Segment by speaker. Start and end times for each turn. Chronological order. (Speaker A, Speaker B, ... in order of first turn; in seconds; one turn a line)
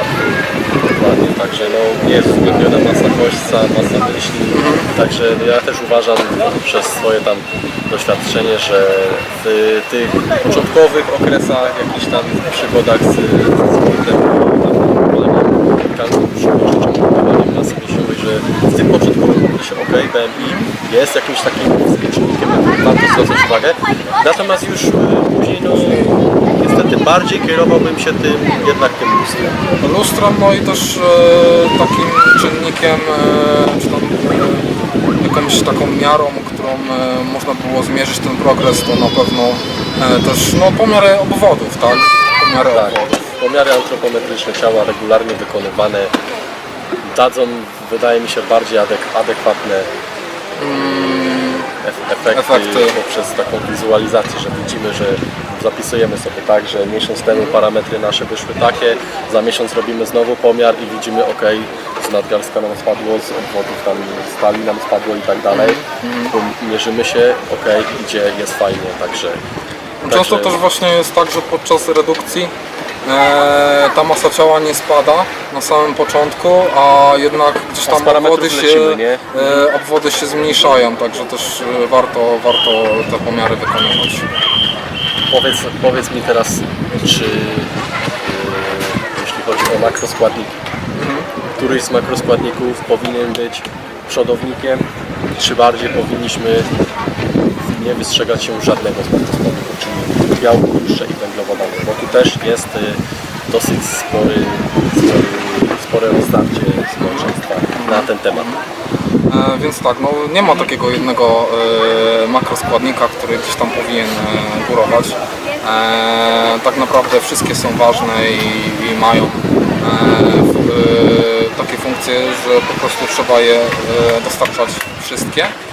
Speaker A: 0.8-29.6
Speaker B: 4.5-4.9
Speaker B: 20.4-20.7
Speaker B: 25.8-26.1
Speaker B: 29.8-34.7
Speaker B: 35.2-43.2
Speaker A: 42.7-46.1
Speaker A: 47.0-49.9
Speaker B: 50.6-51.7
Speaker A: 51.8-69.4
Speaker B: 52.3-53.0
Speaker B: 57.3-57.6
Speaker B: 65.5-66.3
Speaker B: 70.0-72.5
Speaker A: 70.1-70.6
Speaker B: 73.0-84.2
Speaker A: 77.8-79.7
Speaker A: 85.3-90.6
Speaker B: 90.9-91.3
Speaker A: 91.6-94.8
Speaker A: 95.4-96.7
Speaker A: 97.6-108.5
Speaker B: 107.0-108.6
Speaker B: 109.3-125.5